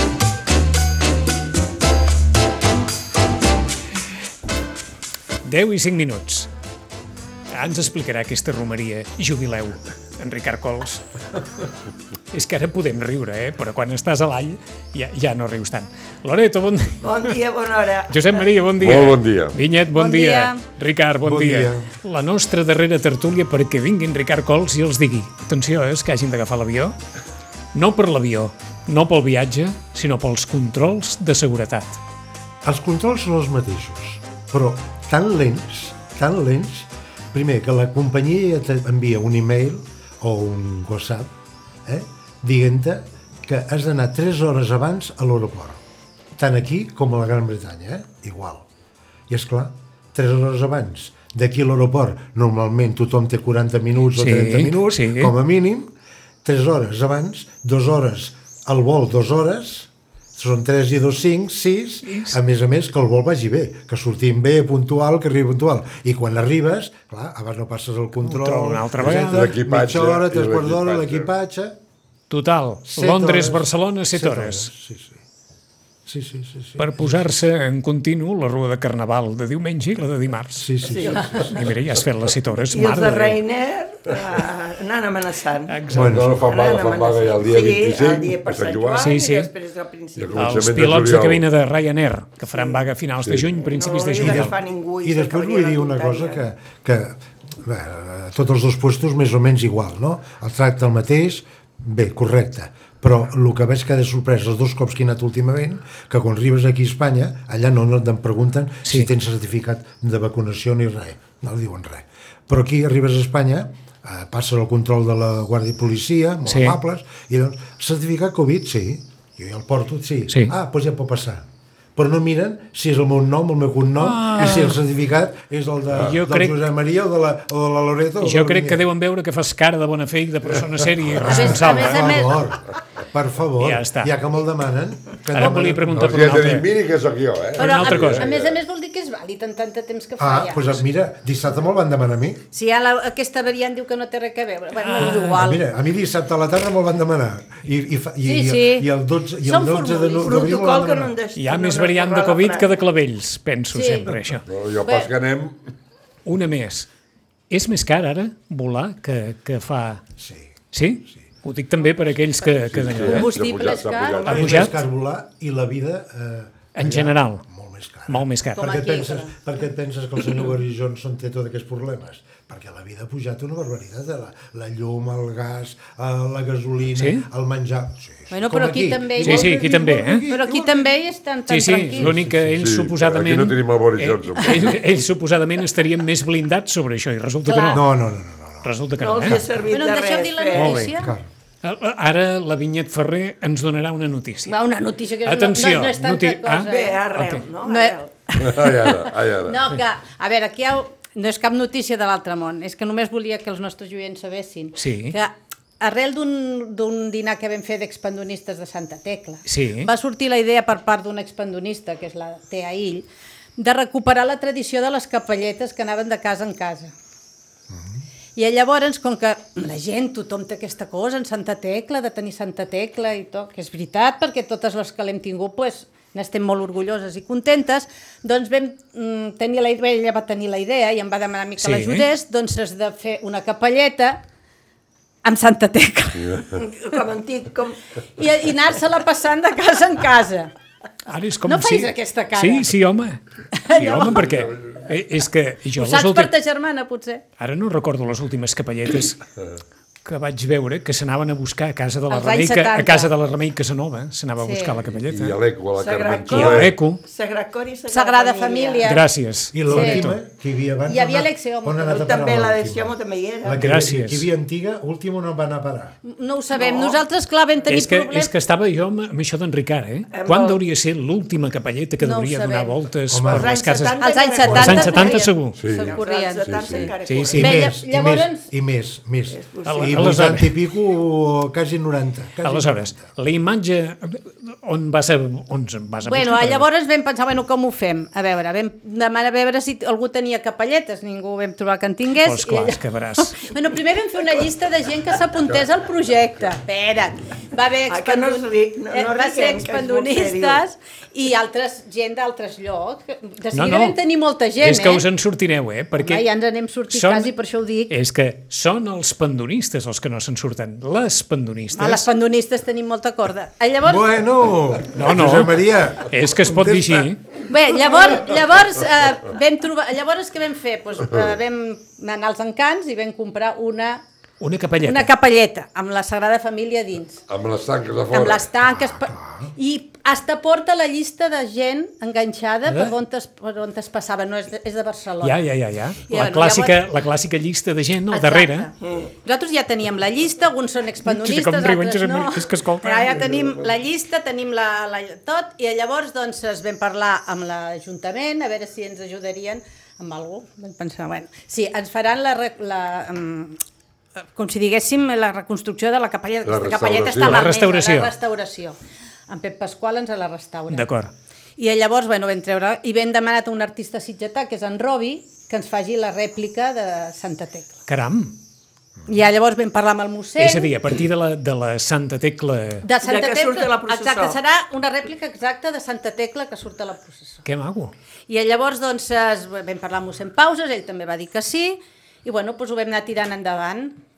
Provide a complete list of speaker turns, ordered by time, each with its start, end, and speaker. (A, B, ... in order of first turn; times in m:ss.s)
0:05.4-0:06.5 A
0:07.5-0:11.0 A
0:12.3-0:17.3 A
0:17.0-0:18.4 B
0:18.1-0:27.0 A
0:18.8-0:19.5 C
0:19.9-0:20.6 D
0:21.2-0:21.9 E
0:27.7-0:32.0 A
0:32.6-0:41.3 E
0:41.8-0:45.8 E
0:46.4-0:48.6 E
0:49.3-0:55.9 E
0:54.1-0:55.3 A
0:56.4-1:11.8 E
1:02.0-1:02.4 A
1:08.2-1:09.4 A
1:09.3-1:11.3 C
1:12.3-1:14.7 A
1:12.8-1:15.2 E
1:16.0-1:17.3 E
1:16.8-1:20.7 A
1:20.6-1:21.6 E
1:20.8-1:21.4 B
1:21.4-1:23.4 A
1:22.7-1:25.8 B
1:25.7-1:26.4 A
1:25.9-1:26.4 E
1:26.0-1:29.1 C
1:26.4-1:30.7 B
1:29.0-1:29.5 A
1:30.2-1:31.4 C
1:30.3-1:34.5 A
1:33.2-1:33.5 C
1:33.7-1:36.4 B
1:34.2-2:01.4 E
1:56.4-1:56.8 A
2:02.0-2:08.8 E
2:04.0-2:04.8 A
2:05.9-2:06.6 A
2:08.2-2:12.2 A
2:11.2-2:16.2 E
2:11.2-2:12.4 D
2:13.6-2:14.1 A
2:15.3-2:16.7 A
2:16.0-2:18.6 C
2:17.6-2:18.3 A
2:17.6-2:20.8 D
2:20.2-2:22.4 E
2:22.5-2:25.6 D
2:24.8-2:25.4 A
2:25.0-2:31.1 E
2:28.2-2:28.9 D
2:29.4-2:30.3 D
2:30.2-2:32.8 B
2:31.3-2:34.4 A
2:33.7-2:34.2 D
2:34.5-2:35.6 C
2:34.8-2:35.1 D
2:36.2-2:36.9 A
2:37.5-2:40.0 A
2:40.2-2:40.5 E
2:40.7-2:43.3 A
2:42.6-2:44.6 C
2:43.0-2:44.4 D
2:44.2-2:44.8 A
2:44.2-3:00.9 E
2:46.7-2:47.4 A
2:48.1-2:48.7 A
2:48.6-2:49.4 D
2:57.0-2:57.2 A
2:58.3-2:59.6 D
2:59.2-3:00.2 A
3:00.2-3:02.1 D
3:01.5-3:07.8 A
3:02.0-3:02.7 E
3:02.6-3:04.8 C
3:07.4-3:07.8 D
3:07.7-3:08.7 E
3:08.6-3:09.5 A
3:09.0-3:10.9 B
3:09.7-3:11.1 D
3:10.5-3:11.0 A
3:11.0-3:11.2 E
3:11.6-3:14.5 A
3:14.4-3:17.0 D
3:15.2-3:17.4 A
3:16.6-3:18.1 B
3:17.6-3:36.9 D
3:18.4-3:19.5 C
3:24.8-3:25.2 A
3:29.4-3:29.9 A
3:38.3-3:54.2 D
3:51.6-3:52.0 A
3:55.2-3:56.4 D
3:56.5-3:57.8 B
3:58.2-4:00.5 D
4:01.0-4:06.3 A
4:01.4-4:02.7 D
4:03.5-4:04.3 D
4:05.8-4:07.2 D
4:07.4-4:09.2 A
4:10.0-4:15.4 A
4:12.1-4:13.1 D
4:14.4-4:14.8 D
4:15.0-4:16.7 C
4:15.7-4:18.9 B
4:16.3-4:17.0 A
4:17.9-4:19.0 D
4:18.8-4:20.2 A
4:19.5-4:26.0 E
4:19.7-4:20.0 D
4:20.8-4:22.0 D
4:21.8-4:23.6 B
4:23.6-4:24.3 A
4:26.0-4:28.3 D
4:26.5-4:27.0 B
4:27.6-4:35.6 A
4:30.1-4:30.6 B
4:32.0-4:32.8 D
4:33.1-4:33.5 E
4:33.3-4:37.6 B
4:34.0-4:38.4 D
4:34.4-4:35.0 E
4:35.5-4:36.9 C
4:37.0-4:37.5 A
4:37.3-4:43.1 E
4:39.3-4:40.2 B
4:39.6-4:40.5 A
4:42.4-4:46.6 A
4:46.0-5:05.0 D
4:52.2-4:53.4 A
4:57.9-5:00.6 B
5:03.5-5:04.0 A
5:04.6-5:06.2 A
5:06.0-5:07.9 D
5:06.9-5:07.3 A
5:07.9-5:12.1 A
5:11.7-5:14.0 D
5:13.8-5:17.1 E
5:14.9-5:17.2 A
5:17.5-5:24.0 D
5:24.4-5:25.1 A
5:24.8-5:27.2 D
5:27.3-5:28.4 C
5:28.1-5:35.4 D
5:28.7-5:29.5 E
5:32.6-5:32.9 A
5:35.2-5:38.7 A
5:36.1-5:36.8 D
5:38.1-5:53.6 D
5:38.8-5:39.1 B
5:41.0-5:43.3 A
5:54.3-5:58.8 D
5:56.4-5:57.4 C
5:57.2-5:58.1 A
5:59.3-6:00.9 D
6:00.7-6:01.1 A
6:01.6-6:07.7 D
6:07.9-6:08.3 A
6:09.1-6:10.7 D
6:10.4-6:12.8 A
6:12.8-6:17.4 D
6:13.0-6:14.4 B
6:17.4-6:17.9 A
6:18.3-6:23.9 D